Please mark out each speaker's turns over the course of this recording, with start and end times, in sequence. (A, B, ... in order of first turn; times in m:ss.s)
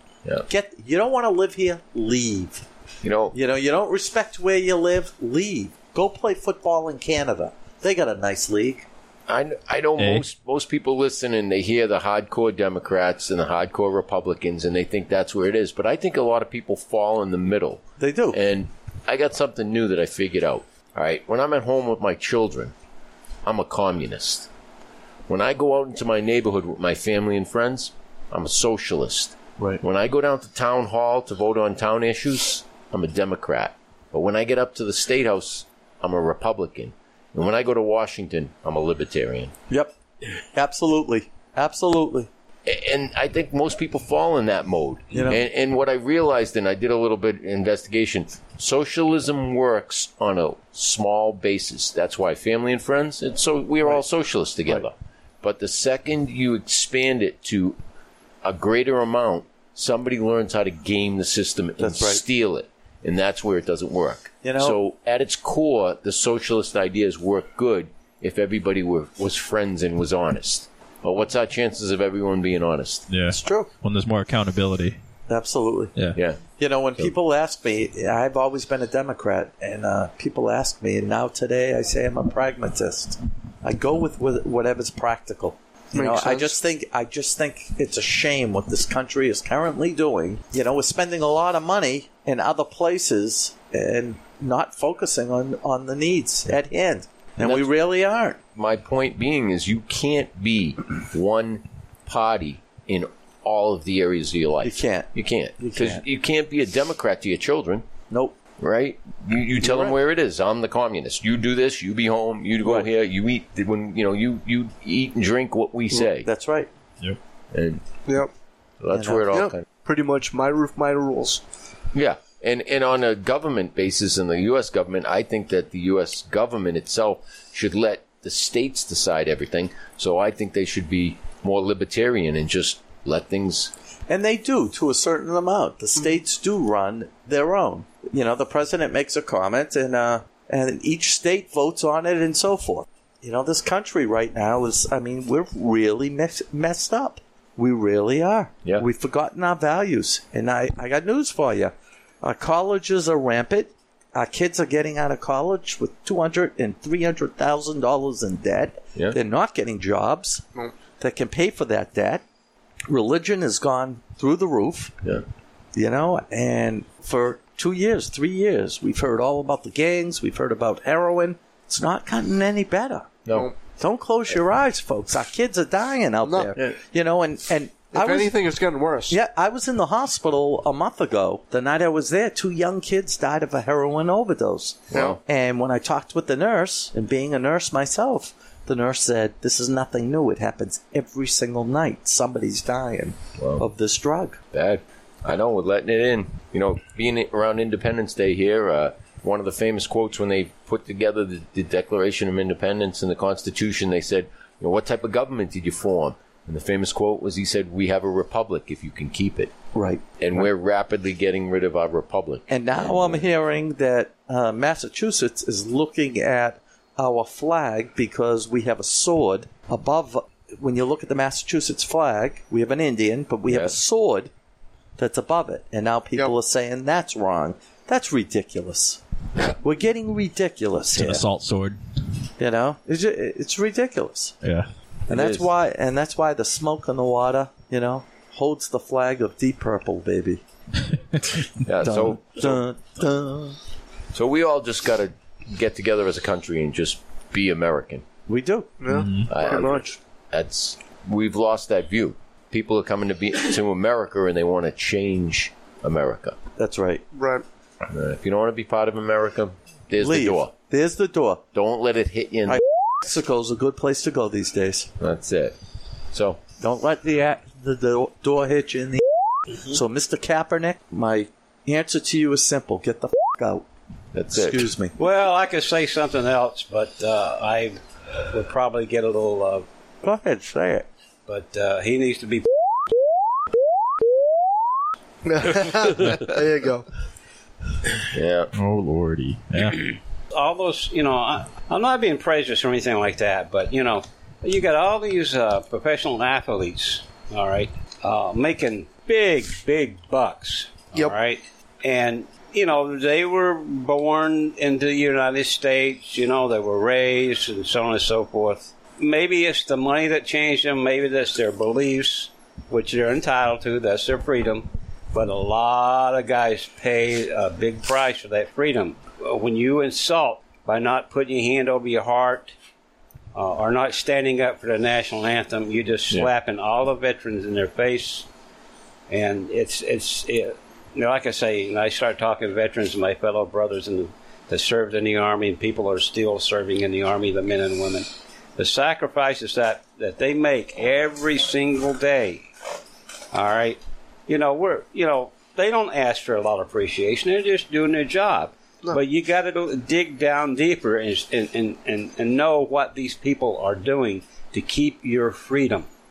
0:00.5-0:02.6 A
0:03.0-0:03.4 B
0:03.3-0:08.9 A
0:09.3-0:22.7 B
0:10.0-0:10.2 C
0:18.0-0:18.4 A
0:23.4-0:24.5 B
0:25.3-0:39.5 B
0:40.5-0:42.3 A
0:42.6-0:57.8 B
0:45.1-0:45.4 A
0:58.4-1:13.1 B
1:01.8-1:02.2 A
1:04.4-1:04.8 A
1:13.1-1:15.0 C
1:13.3-1:13.7 A
1:15.3-1:15.9 A
1:16.1-1:16.4 B
1:16.6-1:38.4 A
1:25.9-1:26.5 D
1:37.4-1:37.7 B
1:38.5-1:47.8 B
1:44.6-1:46.0 A
1:48.1-1:48.3 A
1:48.6-1:56.3 B
1:49.7-1:49.9 A
1:55.9-1:56.7 A
1:57.5-1:57.8 B
1:58.8-1:59.6 B
1:58.9-1:59.2 A
1:59.3-2:01.4 D
2:01.9-2:13.7 B
2:14.1-2:40.4 A
2:41.0-2:42.2 A
2:42.9-2:44.9 A
2:45.7-2:53.2 A
2:53.2-2:53.5 B
2:53.8-2:58.4 A
2:56.2-2:56.5 D
2:57.9-2:59.2 D
2:59.1-3:14.4 A
3:04.9-3:05.2 B
3:13.4-3:13.6 B
3:14.5-3:29.5 B
3:29.7-3:30.4 A
3:30.2-3:33.3 B
3:32.5-3:44.3 A
3:43.5-3:43.8 B
3:45.0-3:49.0 A
3:49.6-3:51.2 A
3:50.9-3:51.8 C
3:52.4-3:54.3 A
3:54.4-3:54.7 C
3:55.1-3:55.5 B
3:55.1-4:00.4 A
4:01.6-4:02.6 B
4:01.8-4:03.6 A
4:04.1-4:08.0 B
4:08.3-4:08.7 A
4:08.8-4:09.9 D
4:08.9-4:09.3 C
4:09.3-4:16.4 B
4:16.6-4:17.0 A
4:17.1-4:17.4 D
4:17.9-4:20.5 B
4:20.0-4:21.4 A
4:21.5-4:22.6 B
4:22.5-4:24.9 A
4:25.0-4:25.6 B
4:26.1-4:26.4 B
4:26.6-4:29.0 A
4:29.7-4:33.6 A
4:34.1-4:34.7 B
4:34.3-4:34.9 A
4:35.0-4:39.7 E
4:40.0-4:40.8 A
4:41.3-4:42.5 E
4:45.2-4:46.9 D
4:48.1-4:48.5 B
4:48.5-4:49.9 C
4:50.3-5:22.5 E
5:23.3-5:28.3 E
5:29.1-5:42.5 E
5:43.3-5:55.9 E